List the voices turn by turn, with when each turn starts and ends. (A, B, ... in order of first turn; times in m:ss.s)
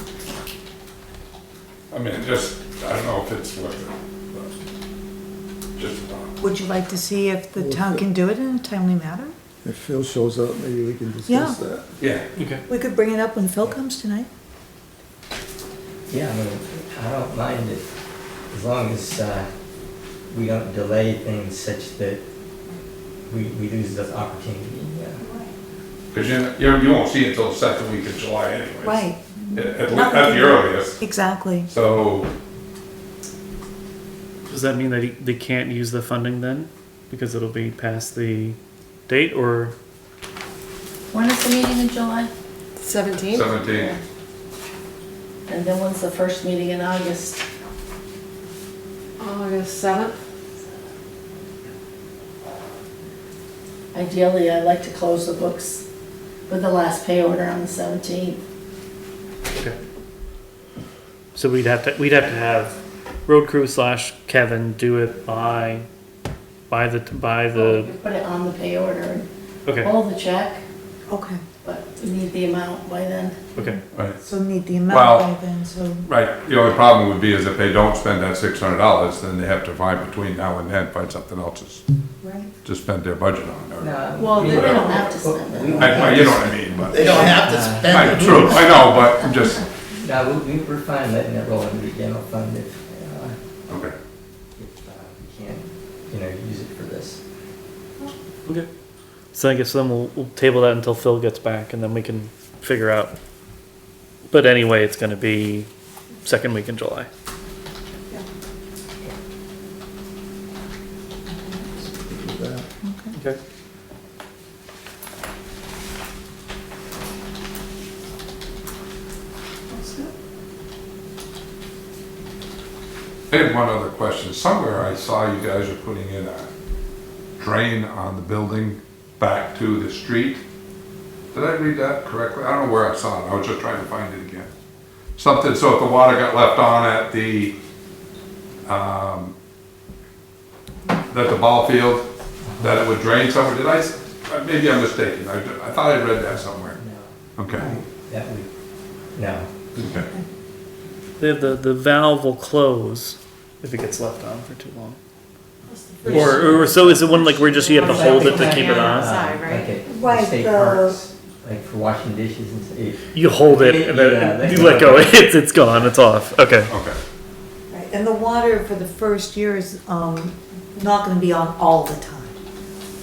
0:01.9-0:04.6 A
0:05.8-0:06.3 A
0:06.4-0:09.3 B
0:07.6-0:08.1 C
0:09.6-0:11.9 C
0:11.3-0:11.6 B
0:12.0-0:12.2 A
0:12.4-0:12.6 D
0:12.7-0:14.3 B
0:16.1-0:17.8 E
0:18.5-0:19.5 E
0:20.3-0:22.2 E
0:23.3-0:25.2 E
0:26.1-0:31.0 A
0:28.8-0:31.7 B
0:31.7-0:32.3 A
0:34.5-0:39.8 D
0:41.1-0:42.3 F
0:42.8-0:43.5 G
0:43.3-0:44.0 A
0:43.6-0:44.0 F
0:45.5-0:47.4 F
0:49.2-0:50.2 G
0:53.9-0:55.8 F
0:56.5-0:58.4 F
1:01.3-1:05.9 D
1:06.7-1:07.9 D
1:07.5-1:09.3 F
1:09.7-1:09.9 D
1:09.8-1:10.6 F
1:11.1-1:11.4 B
1:11.6-1:13.4 F
1:13.6-1:13.8 D
1:13.6-1:16.0 B
1:14.9-1:15.4 A
1:16.1-1:21.8 A
1:22.2-1:22.5 B
1:22.6-1:25.0 A
1:23.8-1:26.3 E
1:24.2-1:26.0 F
1:25.6-1:28.8 C
1:25.8-1:27.1 A
1:26.9-1:28.4 E
1:27.9-1:29.6 A
1:30.0-1:33.4 E
1:33.7-1:33.9 A
1:34.6-1:37.2 E
1:39.3-1:43.2 D
1:44.3-1:45.7 D
1:46.2-1:47.1 D
1:51.3-1:51.8 B
1:52.0-1:52.7 C
1:52.8-1:53.2 B
1:59.7-2:00.1 B
2:03.3-2:06.5 A
2:07.4-2:10.4 A
2:11.3-2:14.5 A
2:15.2-2:17.6 A
2:18.7-2:19.3 A
2:21.1-2:22.1 A
2:22.4-2:22.8 E
2:22.6-2:26.8 A
2:26.8-2:27.2 E
2:27.4-2:27.7 A
2:27.8-2:28.5 E
2:29.2-2:29.6 E
2:29.8-2:30.1 A
2:31.2-2:35.0 D
2:36.0-2:39.7 G
2:36.1-2:39.2 D
2:36.3-2:37.0 E
2:37.8-2:45.2 E
2:39.8-2:41.0 B
2:43.1-2:46.7 D
2:46.7-2:47.0 A
2:47.7-2:52.3 B